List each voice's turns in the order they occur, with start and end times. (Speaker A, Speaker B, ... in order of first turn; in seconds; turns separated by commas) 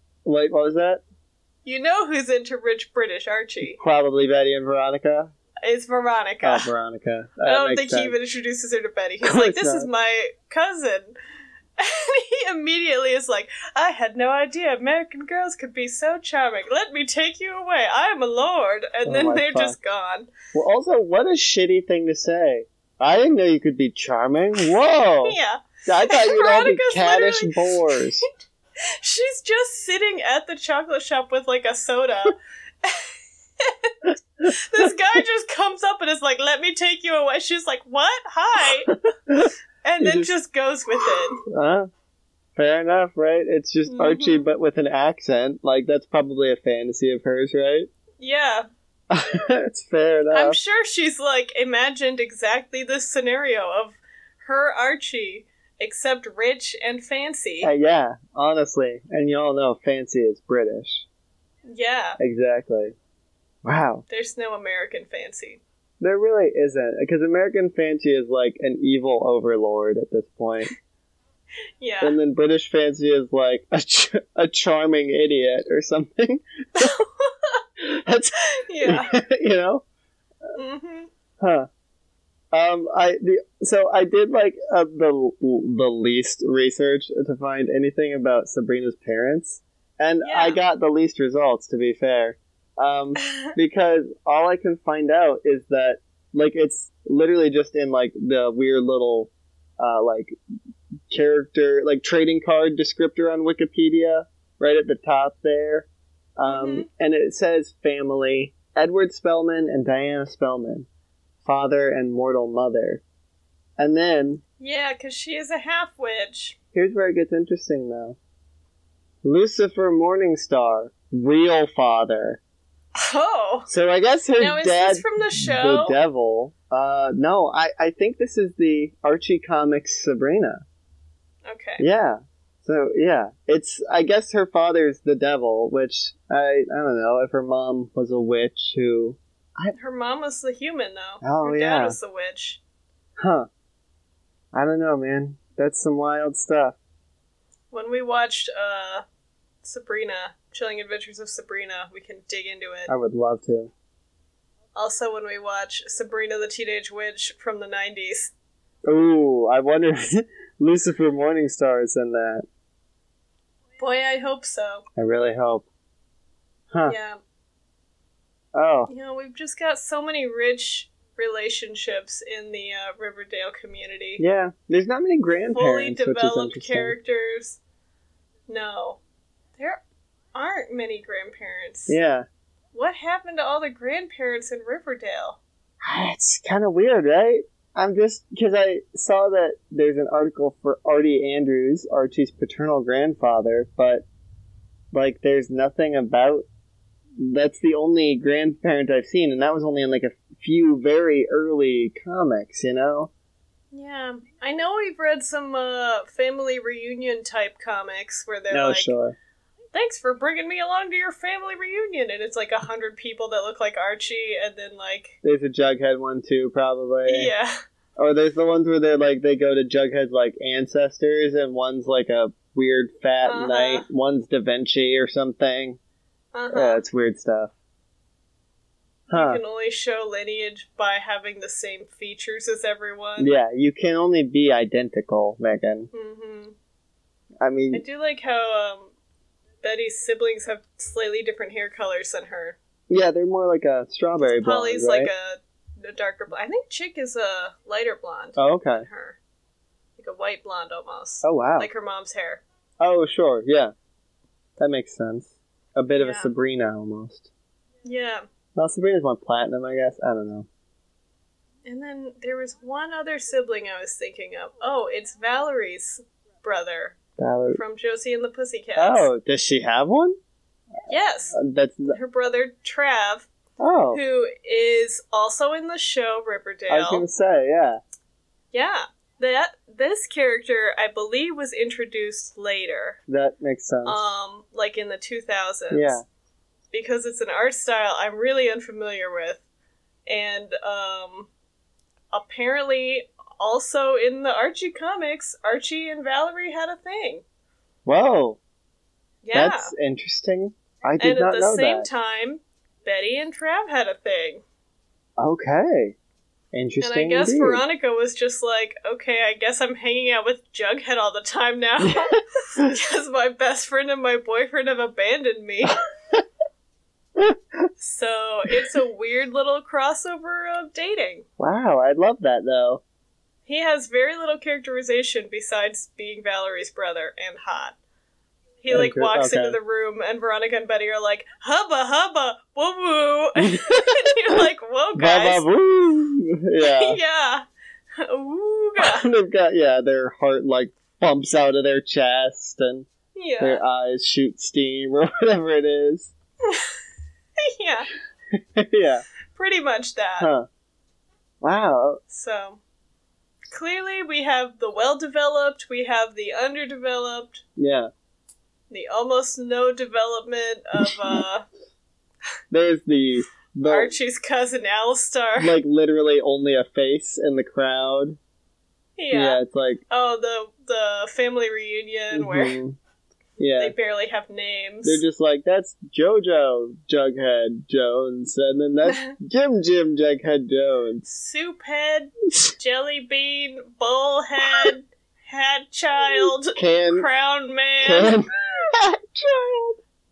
Speaker A: 0.2-1.0, Speaker B: 1.6-3.8, Speaker A: 3.8-5.3, Speaker B: 5.6-6.7, Speaker A: 6.4-8.2, Speaker B: 7.4-11.1, Speaker A: 9.2-9.9, Speaker B: 11.8-20.3, Speaker A: 19.0-19.8, Speaker A: 20.5-28.2, Speaker B: 25.2-28.0, Speaker B: 28.8-38.9, Speaker A: 34.0-34.9, Speaker A: 38.6-40.3, Speaker B: 39.8-41.4, Speaker A: 41.0-41.9, Speaker A: 42.5-47.9, Speaker B: 43.9-44.5, Speaker B: 48.2-48.6, Speaker A: 49.1-50.6, Speaker B: 50.3-57.7, Speaker A: 57.6-61.0, Speaker B: 61.7-62.2, Speaker A: 62.2-62.9, Speaker A: 63.6-64.0, Speaker B: 64.1-65.6, Speaker A: 66.0-70.7, Speaker B: 71.8-72.2, Speaker A: 72.0-77.0, Speaker B: 76.8-77.6, Speaker A: 77.8-79.8, Speaker B: 78.6-79.1, Speaker B: 80.5-81.1, Speaker A: 81.4-81.7, Speaker A: 82.5-100.3, Speaker B: 90.2-90.6, Speaker A: 101.1-110.9, Speaker B: 106.4-106.9, Speaker A: 111.4-113.0, Speaker A: 113.8-114.4, Speaker B: 114.6-116.5, Speaker A: 116.7-118.2, Speaker A: 119.2-122.4, Speaker B: 123.0-123.7, Speaker A: 123.7-130.6, Speaker B: 124.4-126.0, Speaker B: 131.4-131.8, Speaker A: 131.8-139.7, Speaker B: 139.7-142.6, Speaker A: 141.2-142.0, Speaker A: 143.2-143.5, Speaker A: 144.5-146.8, Speaker B: 147.7-149.0, Speaker B: 149.6-152.9, Speaker A: 152.9-153.7, Speaker B: 154.7-158.3, Speaker A: 158.8-162.4, Speaker B: 163.8-164.8, Speaker A: 164.9-165.7, Speaker B: 166.8-167.2, Speaker A: 168.5-168.9, Speaker B: 168.9-174.2, Speaker A: 174.2-176.9, Speaker B: 175.5-177.6, Speaker B: 178.5-179.0, Speaker B: 180.3-182.0, Speaker A: 181.9-182.2, Speaker B: 182.7-185.4, Speaker A: 185.8-194.1, Speaker A: 194.9-196.4, Speaker A: 197.2-203.1, Speaker B: 203.7-208.9, Speaker A: 208.5-209.2, Speaker B: 209.7-215.2, Speaker A: 215.2-217.3, Speaker B: 217.1-217.5, Speaker A: 218.0-225.8, Speaker B: 223.2-223.8, Speaker B: 226.3-226.8, Speaker A: 226.5-227.5, Speaker A: 229.1-229.4, Speaker B: 229.1-233.3, Speaker A: 233.2-235.9, Speaker B: 235.9-236.5, Speaker A: 237.4-237.8, Speaker B: 237.7-238.9, Speaker B: 239.6-242.6, Speaker A: 242.9-245.1, Speaker B: 244.2-249.2, Speaker A: 248.4-248.9, Speaker B: 250.0-252.4, Speaker A: 251.2-251.7, Speaker A: 252.8-253.7, Speaker A: 254.6-257.3, Speaker B: 256.0-256.3, Speaker B: 257.8-258.2, Speaker A: 258.6-260.5, Speaker B: 261.6-267.0, Speaker A: 267.2-267.6, Speaker B: 267.5-269.1, Speaker A: 268.8-270.2, Speaker B: 270.9-271.4, Speaker A: 271.3-271.9, Speaker B: 271.9-273.3, Speaker A: 273.6-274.0, Speaker B: 273.9-277.1, Speaker A: 276.7-277.8, Speaker B: 278.5-283.0, Speaker A: 283.1-284.0, Speaker B: 283.8-286.0, Speaker A: 285.7-286.0, Speaker B: 286.7-289.4, Speaker B: 290.1-291.3, Speaker B: 292.1-297.2, Speaker A: 297.8-298.4, Speaker B: 299.2-299.7, Speaker A: 299.3-301.9, Speaker B: 301.0-304.4, Speaker A: 305.2-306.0, Speaker A: 306.5-307.6, Speaker B: 306.8-315.8, Speaker A: 312.1-312.7, Speaker A: 317.1-317.7, Speaker B: 317.8-321.2, Speaker A: 321.4-322.8, Speaker B: 323.4-327.8, Speaker B: 328.6-335.4, Speaker A: 328.7-329.6, Speaker A: 333.4-334.4, Speaker A: 334.9-337.0, Speaker B: 336.6-337.4, Speaker B: 338.0-339.1, Speaker A: 338.8-342.9, Speaker B: 343.1-343.6, Speaker A: 343.4-346.1, Speaker B: 347.4-347.9, Speaker A: 348.3-349.0, Speaker B: 349.3-350.3, Speaker A: 350.2-350.5, Speaker A: 351.4-352.0, Speaker B: 352.1-352.6, Speaker B: 353.5-357.4, Speaker A: 357.6-357.9, Speaker B: 358.7-361.4, Speaker A: 360.8-361.2, Speaker A: 362.5-363.9, Speaker B: 363.6-365.5, Speaker A: 365.4-368.2, Speaker B: 369.0-372.6, Speaker A: 369.1-369.8, Speaker A: 372.1-372.8, Speaker A: 373.4-373.7, Speaker B: 373.6-375.0, Speaker A: 374.8-381.0, Speaker B: 381.0-388.2, Speaker A: 386.2-387.1, Speaker A: 387.8-389.8